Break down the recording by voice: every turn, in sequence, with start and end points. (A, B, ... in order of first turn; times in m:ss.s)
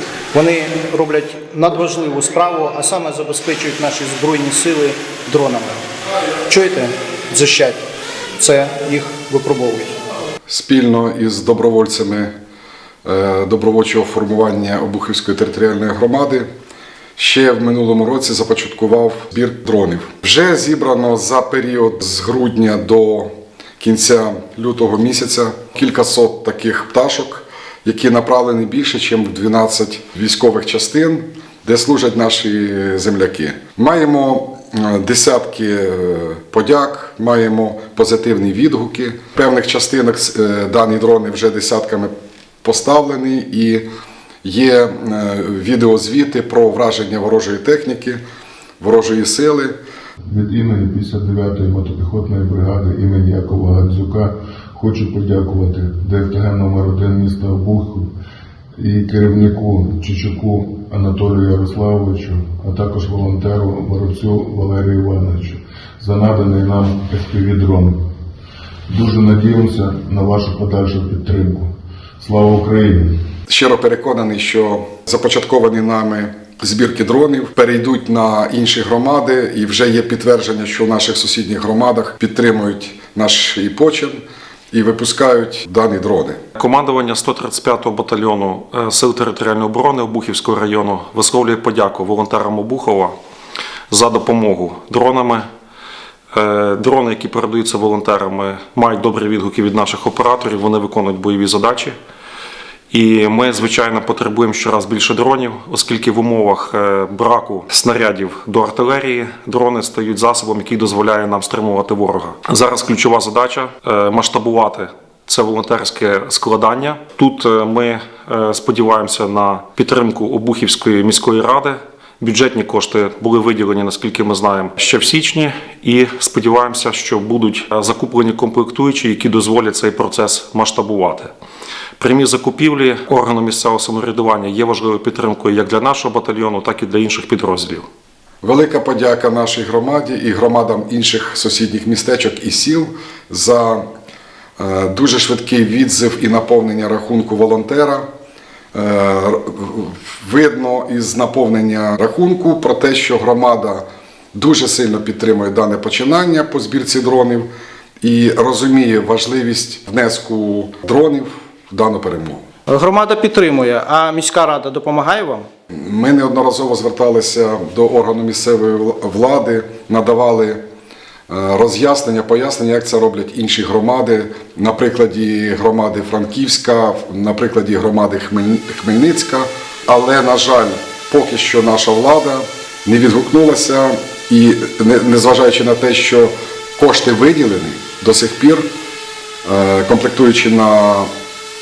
0:00.3-0:05.8 A
0:06.5-0:07.8 A
0:08.4-0:10.0 A
0:10.5-0:12.3 B
0:13.0-0:16.5 B
0:17.2-0:43.8 B
0:44.4-0:48.2 B
0:48.8-0:49.8 B
0:50.2-0:58.1 C
0:58.8-1:08.0 C
1:08.9-1:11.7 C
1:12.2-1:13.1 C
1:13.5-1:26.4 B
1:26.6-1:33.2 D
1:33.9-1:35.4 D
1:36.3-1:42.0 D
1:42.9-2:11.3 D
2:12.0-2:17.8 D
2:18.4-2:23.8 B
2:24.6-2:28.1 B
2:28.7-2:37.5 B
2:38.0-2:42.4 B
2:42.7-2:45.5 A
2:45.7-2:50.6 B
2:51.3-3:08.7 B
3:09.4-3:11.1 B